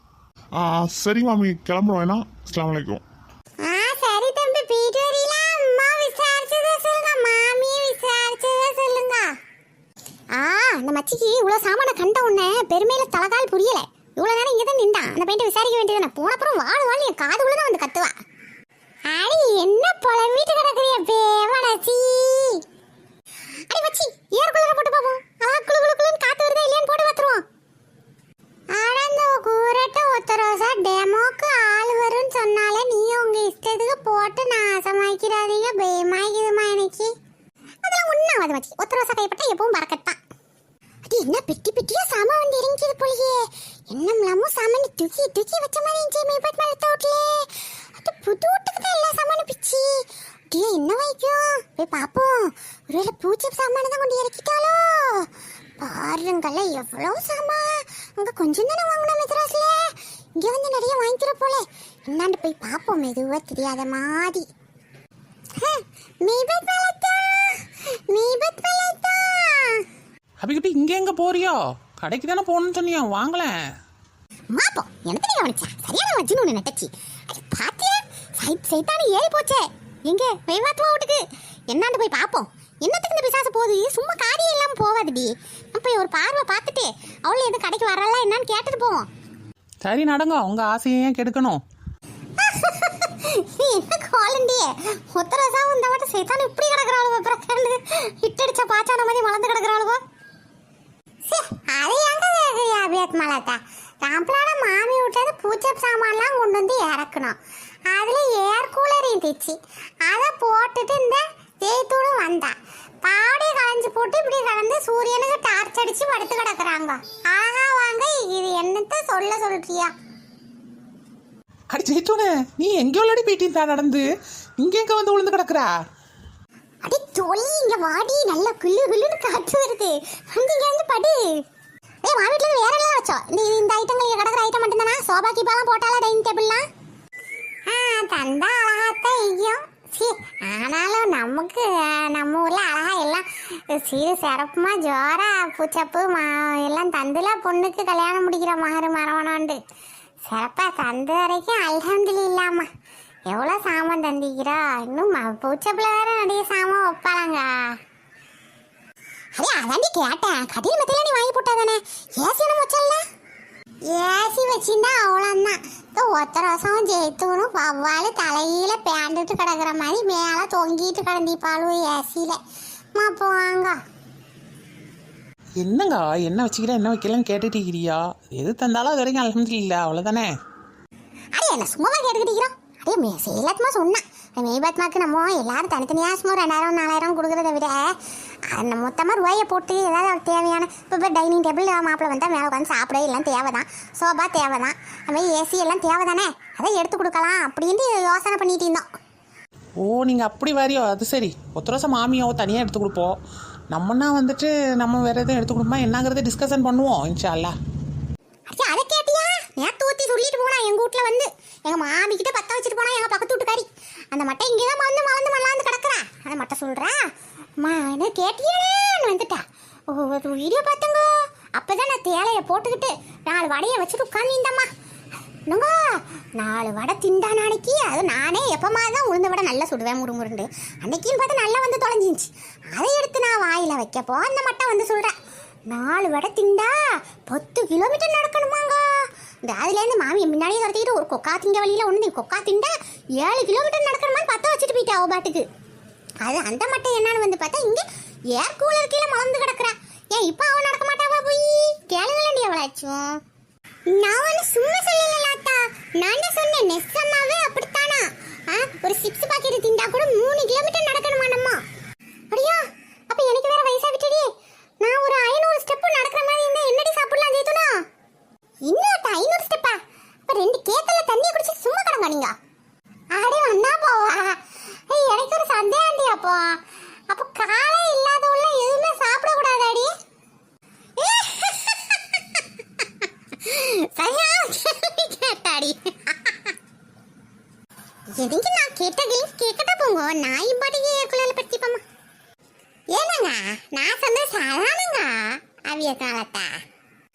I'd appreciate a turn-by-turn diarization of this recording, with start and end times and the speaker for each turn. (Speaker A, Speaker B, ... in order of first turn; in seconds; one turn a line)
Speaker A: 0.6-3.0
Speaker B: 3.6-9.3
Speaker B: 10.3-18.1
Speaker B: 19.1-22.6
Speaker B: 23.7-27.4
Speaker B: 28.7-37.1
Speaker B: 37.9-40.2
Speaker B: 41.0-55.3
Speaker B: 55.8-64.5
Speaker B: 65.6-69.8
Speaker C: 70.4-73.5
Speaker B: 74.5-89.1
Speaker C: 89.8-91.6
Speaker B: 92.4-100.0
Speaker B: 101.3-107.3
Speaker B: 107.9-119.9
Speaker C: 121.7-124.0
Speaker C: 124.6-125.7
Speaker B: 126.8-131.4
Speaker B: 132.0-136.6
Speaker B: 137.7-149.6
Speaker B: 150.2-152.7
Speaker B: 153.3-157.8
Speaker B: 159.3-163.0
Speaker B: 163.8-172.4
Speaker B: 172.9-173.8
Speaker C: 175.6-180.3
Speaker B: 181.3-187.9
Speaker B: 188.5-198.8
Speaker C: 199.8-203.2
Speaker C: 203.7-207.5
Speaker B: 208.5-217.0
Speaker B: 217.6-224.7
Speaker B: 225.5-235.1
Speaker B: 235.7-236.8
Speaker B: 237.3-238.8
Speaker B: 239.4-245.4
Speaker B: 246.2-253.1
Speaker B: 253.9-261.6
Speaker B: 262.3-264.3
Speaker B: 264.8-267.8
Speaker B: 268.6-272.3
Speaker B: 273.1-279.9
Speaker B: 281.0-286.5
Speaker B: 288.2-291.8
Speaker B: 292.9-296.6